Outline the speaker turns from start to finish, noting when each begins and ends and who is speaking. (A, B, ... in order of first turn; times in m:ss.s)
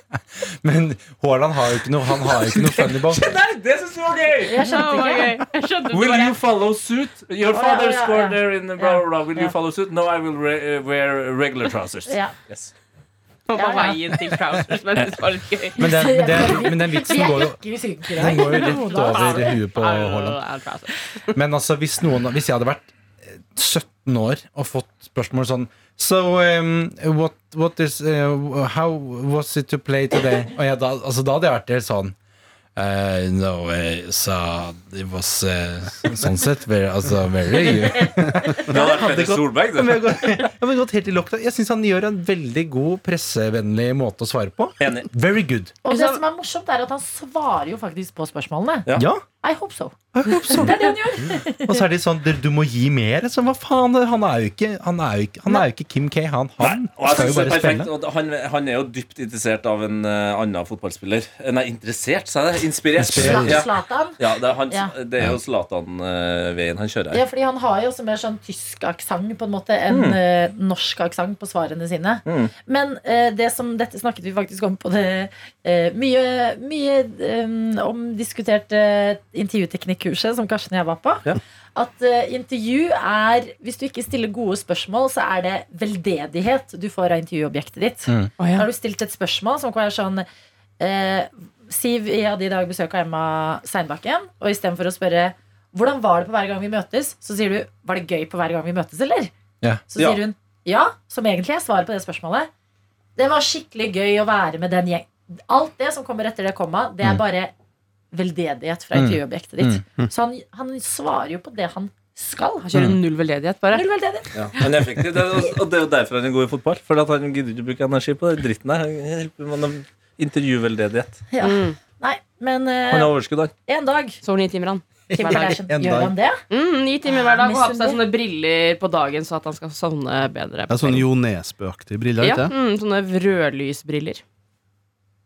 0:00.2-0:03.2 A
0:02.5-0:04.6 B
0:04.4-0:05.4 C
0:04.6-0:06.4 D
0:05.9-0:12.7 B
0:07.5-0:09.5 C
0:12.1-0:12.3 C
0:13.5-0:15.8 D
0:13.6-0:14.0 C
0:15.8-0:17.6 A
0:15.8-0:19.6 C
0:18.2-0:20.4 A
0:18.3-0:21.3 D
0:21.3-0:32.2 A
0:32.8-0:45.7 A
0:38.7-0:40.1 B
0:44.8-0:45.1 B
0:45.8-0:48.9 C
0:45.8-0:46.2 D
0:48.9-0:49.2 A
0:49.4-0:49.9 C
0:50.1-0:50.9 A
0:50.5-0:51.8 C
0:51.6-0:57.9 A
0:56.6-1:07.2 B
1:03.0-1:03.6 A
1:03.1-1:03.6 E
1:03.2-1:04.2 C
1:07.1-1:30.2 C
1:09.9-1:10.2 B
1:12.2-1:12.5 B
1:28.4-1:28.7 D
1:30.8-1:39.3 C
1:39.9-1:42.5 C
1:43.2-1:47.5 C
1:48.1-1:52.6 C
1:48.9-1:49.8 A
1:52.6-1:53.8 D
1:53.7-1:54.3 C
1:54.6-2:01.2 B
2:01.3-2:03.1 C
2:01.4-2:01.8 D
2:02.9-2:03.5 B
2:03.7-2:04.2 C
2:04.2-2:04.8 D
2:05.1-2:05.6 A
2:05.2-2:06.4 C
2:05.6-2:06.1 E
2:06.5-2:11.1 D
2:07.0-2:08.0 C
2:10.7-2:12.5 E
2:12.2-2:14.2 D